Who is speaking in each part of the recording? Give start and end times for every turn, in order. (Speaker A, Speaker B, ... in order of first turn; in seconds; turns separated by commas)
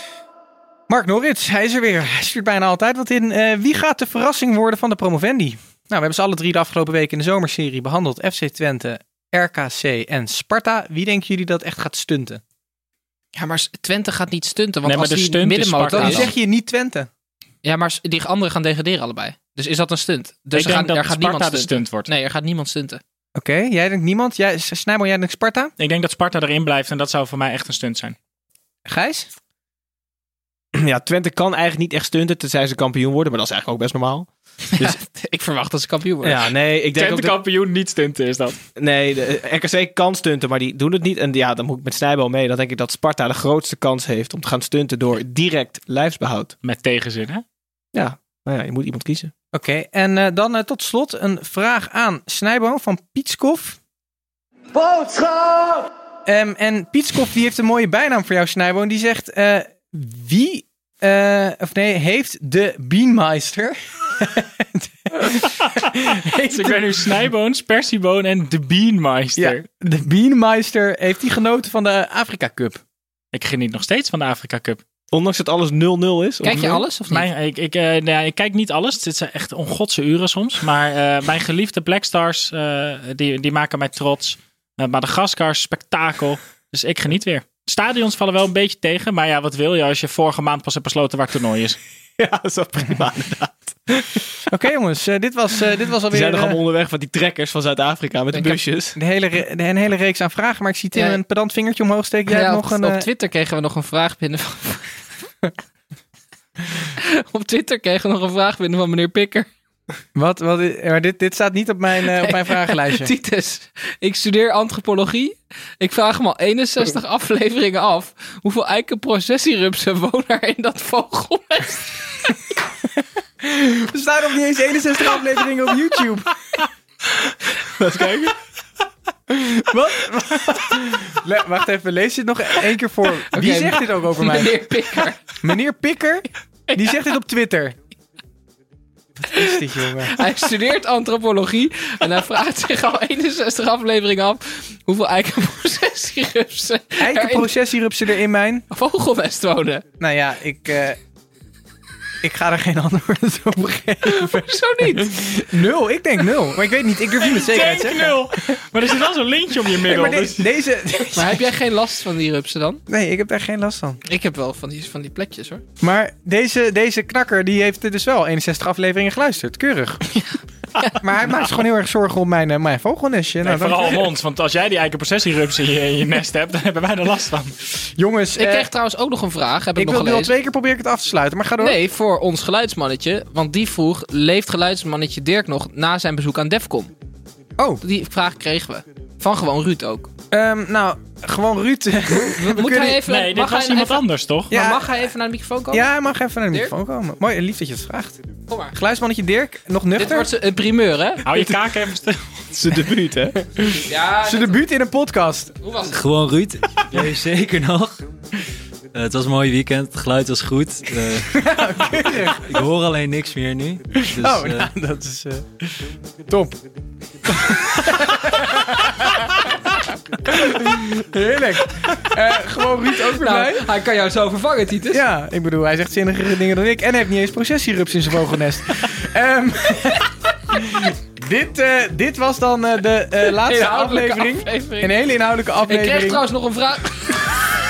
Speaker A: 0.9-12.4, Speaker B: 13.3-16.3, Speaker C: 14.8-16.3, Speaker A: 15.9-17.1, Speaker B: 17.6-23.0, Speaker C: 20.5-22.1, Speaker A: 23.3-25.7, Speaker C: 25.8-28.1, Speaker A: 28.9-29.3, Speaker D: 30.7-35.0, Speaker B: 34.8-36.4, Speaker D: 36.2-37.3, Speaker C: 36.9-38.6, Speaker D: 38.8-46.5, Speaker C: 46.6-47.4, Speaker D: 47.9-49.3, Speaker A: 49.5-53.8, Speaker A: 56.2-67.1, Speaker C: 65.6-69.6, Speaker A: 69.3-72.8, Speaker C: 73.3-74.8, Speaker D: 75.1-76.8, Speaker B: 76.4-77.3, Speaker C: 76.5-91.8, Speaker D: 92.2-94.3, Speaker A: 94.5-96.6, Speaker D: 96.1-99.0, Speaker B: 98.3-98.6, Speaker A: 99.0-103.1, Speaker B: 100.9-101.2, Speaker B: 102.3-104.9, Speaker B: 107.0-109.5, Speaker A: 110.1-113.1, Speaker B: 112.0-121.9, Speaker A: 123.0-126.6, Speaker D: 127.6-128.3, Speaker A: 129.3-134.6, Speaker B: 133.3-135.2, Speaker A: 135.4-137.8, Speaker A: 139.2-140.1, Speaker B: 140.1-147.5, Speaker A: 147.0-148.7, Speaker B: 148.7-149.8, Speaker A: 150.0-151.0, Speaker A: 152.2-158.5, Speaker B: 154.0-155.3, Speaker C: 157.3-160.5, Speaker A: 159.7-161.4, Speaker B: 161.1-162.8, Speaker A: 162.9-164.0, Speaker B: 164.1-165.6, Speaker A: 165.8-170.1, Speaker B: 170.2-171.0, Speaker A: 170.9-174.1, Speaker C: 173.4-177.5, Speaker A: 177.9-178.7, Speaker B: 178.3-180.3, Speaker A: 179.8-181.8, Speaker B: 181.6-186.9, Speaker A: 187.6-187.8, Speaker B: 187.8-190.1, Speaker A: 190.3-193.0, Speaker B: 192.1-195.9, Speaker C: 193.1-194.5, Speaker A: 194.5-194.9, Speaker A: 195.7-198.2, Speaker B: 198.5-198.7, Speaker A: 198.7-200.3, Speaker B: 199.9-201.2, Speaker C: 201.2-202.8, Speaker D: 202.6-203.4, Speaker B: 203.7-204.6, Speaker A: 204.2-205.5, Speaker B: 205.6-206.0, Speaker E: 205.8-208.0, Speaker E: 208.9-214.7, Speaker A: 211.3-212.7, Speaker A: 213.9-216.6, Speaker A: 217.3-219.5, Speaker A: 220.2-223.7, Speaker B: 223.1-225.0, Speaker A: 224.9-236.2, Speaker B: 233.3-235.0, Speaker B: 235.7-237.4